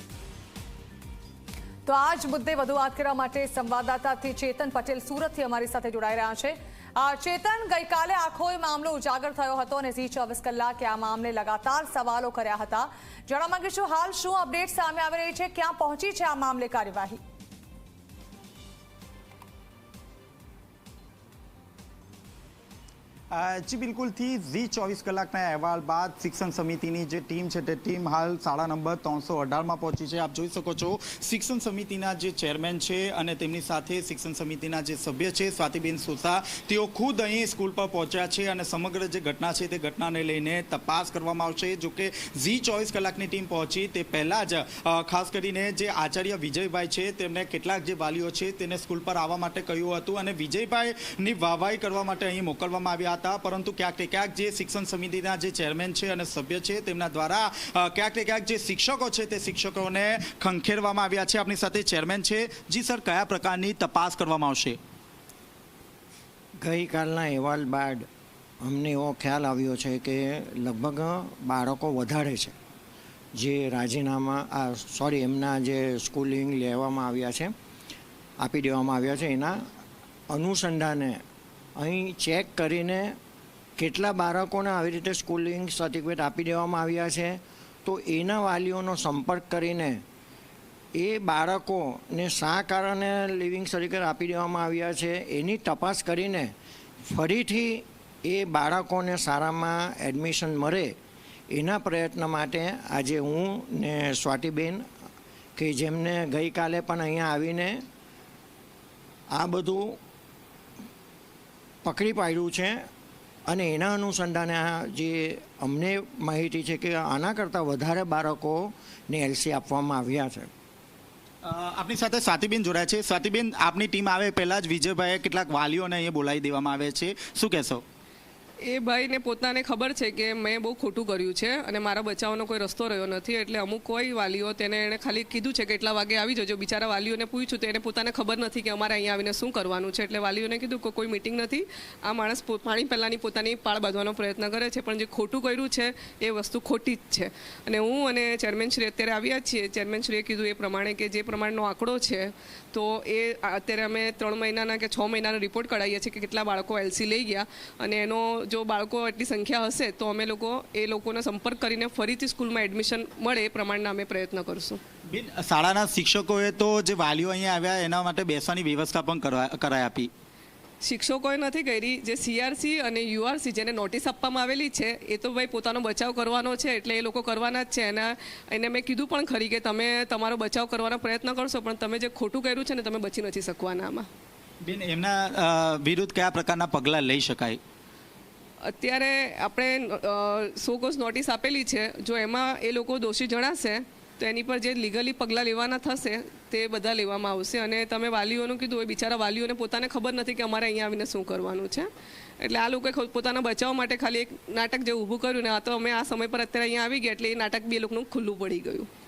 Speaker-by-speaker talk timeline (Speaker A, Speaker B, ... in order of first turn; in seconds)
Speaker A: 1.9-17.2
Speaker B: 23.3-64.8, 121.4-127.8, 165.1-170.1, 184.6-187.6
Speaker C: 66.6-68.1, 68.6-72.5, 73.4-77.5, 78.4-79.6, 80.3-81.2, 81.8-83.2, 83.8-90.0, 91.0-96.5, 97.0-101.0, 101.5-104.9, 105.6-107.8, 109.3-110.0, 111.8-112.8, 113.5-120.5
Speaker D: 128.7-164.8, 170.8-184.1, 188.7-201.9, 202.4-208.9